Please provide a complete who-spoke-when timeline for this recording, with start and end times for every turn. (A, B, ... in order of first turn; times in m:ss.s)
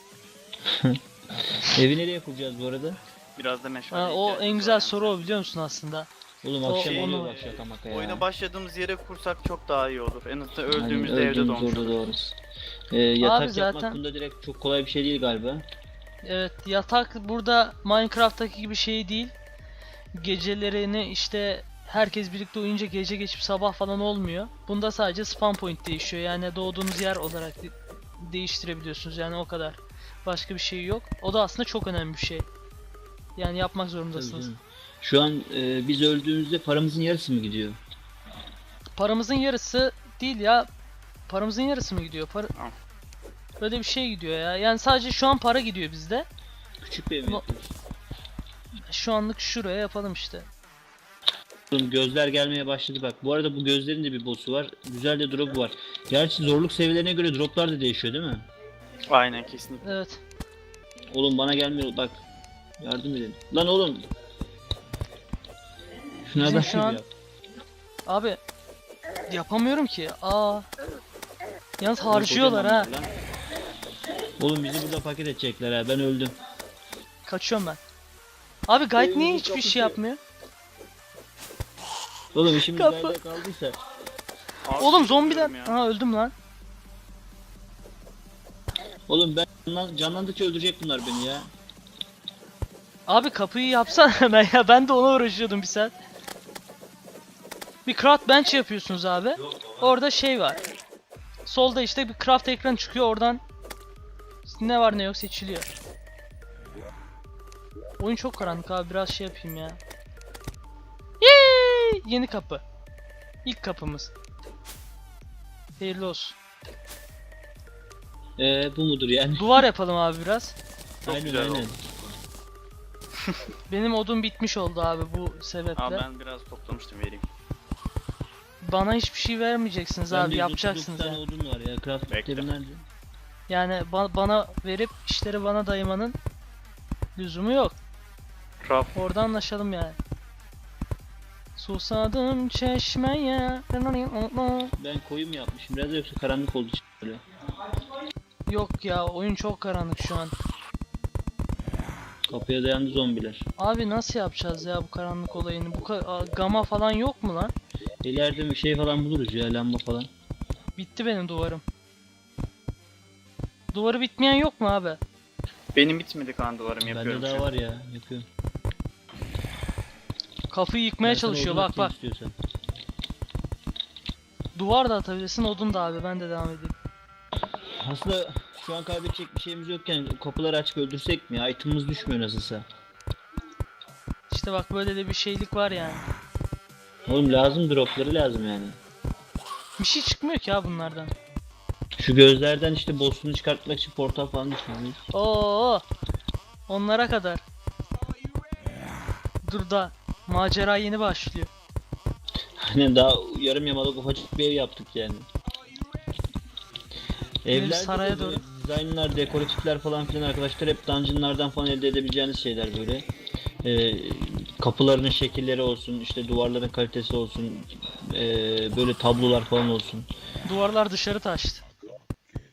0:00.6-0:01.0 A
0:01.6-0:03.0 A
0:03.4-0:05.2 B
0:03.9-0:06.1 C
0:06.4-0:08.3 A
0:06.6-0:07.3 C
0:06.7-0:12.0 B
0:10.7-0:12.4 A
0:12.9-0:15.6 A
0:13.2-0:14.0 C
0:16.2-0:19.3 C
0:20.2-0:32.5 C
0:33.4-0:34.5 C
0:34.1-0:37.8 A
0:39.0-0:40.7 C
0:41.3-0:42.5 C
0:43.6-0:46.3 C
0:46.8-0:47.7 A
0:48.9-0:50.5 C
0:51.7-0:58.5 A
0:59.1-1:00.0 B
0:59.8-1:00.2 C
1:01.1-1:02.2 A
1:02.8-1:04.0 A
1:06.2-1:07.1 A
1:06.4-1:07.0 C
1:08.1-1:08.4 C
1:09.3-1:10.7 C
1:11.8-1:12.9 C
1:12.1-1:13.1 A
1:14.4-1:16.4 A
1:17.3-1:17.8 C
1:18.7-1:20.2 C
1:19.0-1:20.0 A
1:22.3-1:23.8 A
1:22.6-1:23.2 C
1:24.6-1:25.8 B
1:24.8-1:26.3 C
1:29.1-1:31.5 A
1:33.1-1:36.0 C
1:37.8-1:40.6 C
1:41.5-1:43.4 C
1:44.4-1:45.7 C
1:48.0-1:49.8 C
1:51.2-1:52.6 C
1:53.4-1:54.1 C
1:55.8-1:56.4 C
1:58.4-1:59.6 A
1:59.4-2:00.6 C
2:01.0-2:01.7 B
2:01.1-2:01.8 A
2:03.7-2:06.0 C
2:05.8-2:07.2 B
2:08.6-2:11.2 C
2:10.1-2:12.8 A
2:12.1-2:12.5 B
2:13.5-2:16.2 C
2:17.2-2:17.8 C
2:18.6-2:18.9 B
2:18.9-2:20.0 C
2:21.6-2:24.7 C
2:24.8-2:27.2 A
2:28.5-2:30.3 C
2:32.3-2:33.4 A
2:33.6-2:37.5 C
2:38.0-2:40.1 A
2:40.8-2:41.6 C
2:43.7-2:45.0 C
2:45.8-2:47.5 B
2:46.8-2:48.2 A
2:50.5-2:51.9 C
2:51.0-2:52.4 A
2:54.6-2:56.8 C
2:57.8-3:02.6 A
3:04.3-3:06.0 C
3:07.1-3:08.8 A
3:09.8-3:11.1 C
3:12.0-3:15.0 A
3:15.1-3:15.8 C
3:16.7-3:17.4 C
3:19.4-3:21.5 C
3:22.6-3:25.3 A
3:27.4-3:33.0 A
3:27.5-3:28.4 C
3:33.6-3:40.1 A
3:40.4-3:41.6 C